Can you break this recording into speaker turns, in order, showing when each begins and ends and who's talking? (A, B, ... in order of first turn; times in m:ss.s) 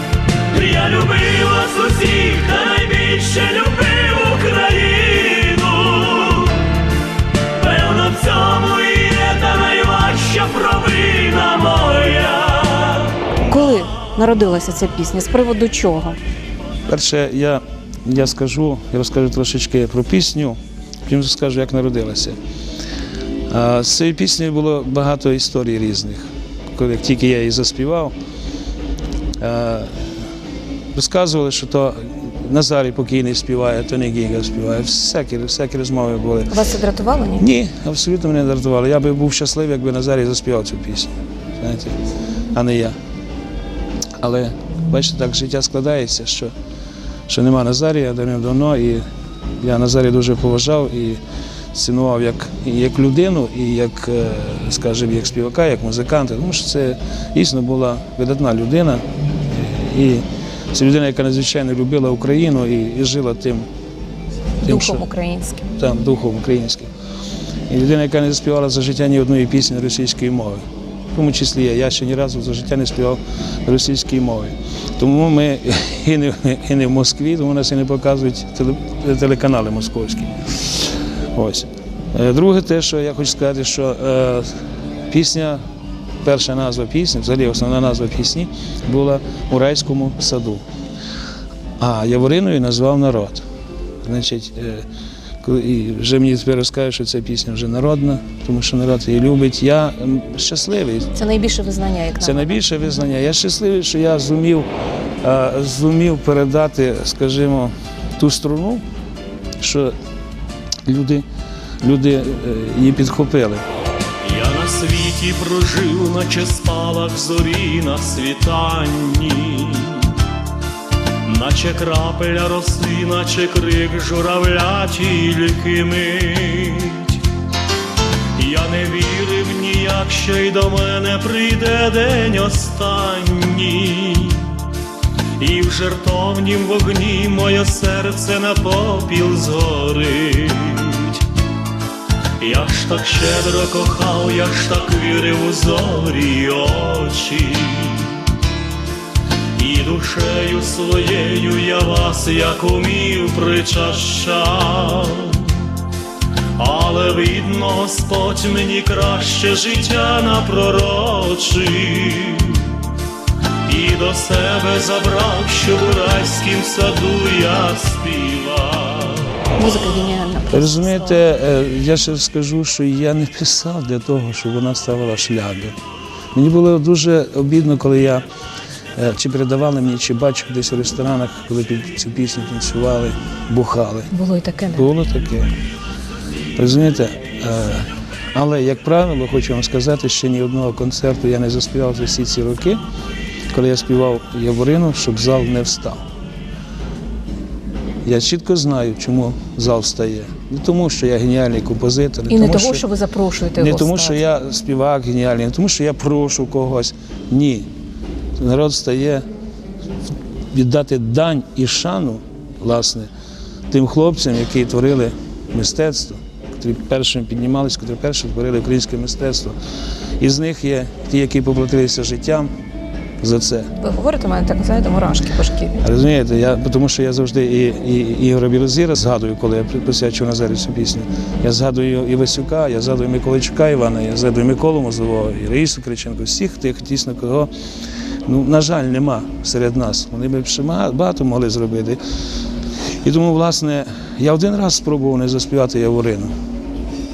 0:00.5-0:06.6 A
0:07.6-0:13.2 A
0:13.5-0:16.2 B
0:16.9-0:22.4 C
0:23.5-0:28.1 C
0:29.4-0:30.3 C
0:30.9-0:36.5 C
0:36.5-0:37.5 B
0:37.4-0:42.0 C
0:42.5-0:43.0 C
0:44.2-0:46.5 C
0:47.3-0:49.0 C
0:49.6-0:51.2 C
0:51.7-1:03.7 C
1:04.6-1:05.0 C
1:04.6-1:05.7 B
1:05.8-1:06.9 C
1:07.7-1:10.6 C
1:11.1-1:25.6 C
1:26.2-1:30.6 C
1:31.8-1:33.4 C
1:34.0-1:34.8 C
1:35.4-1:41.1 C
1:41.1-1:42.6 B
1:42.2-1:44.7 C
1:45.2-1:48.8 C
1:49.6-1:49.9 C
1:50.8-1:51.2 C
1:51.8-1:53.6 C
1:54.2-2:00.1 A
2:01.2-2:07.2 A
2:08.4-2:14.6 A
2:15.4-2:21.2 A
2:22.4-2:28.2 A
2:29.6-2:35.6 A
2:36.6-2:42.7 A
2:43.6-2:49.3 A
2:49.6-2:51.2 B
2:50.5-2:55.7 C
2:56.3-2:58.2 C
2:59.0-3:04.1 C
3:04.1-3:04.9 B
3:04.7-3:05.5 C
3:06.6-3:12.8 C
3:13.5-3:16.0 C
3:18.0-3:22.8 C
3:22.3-3:24.2 B
3:23.6-3:27.7 C
3:28.4-3:29.2 C
3:30.5-3:33.1 C
3:33.7-3:39.5 C
3:40.2-3:42.5 C
3:43.2-3:43.7 C
3:43.8-3:45.8 B
3:45.8-3:57.5 C
3:58.2-4:02.0 C
4:03.0-4:06.3 C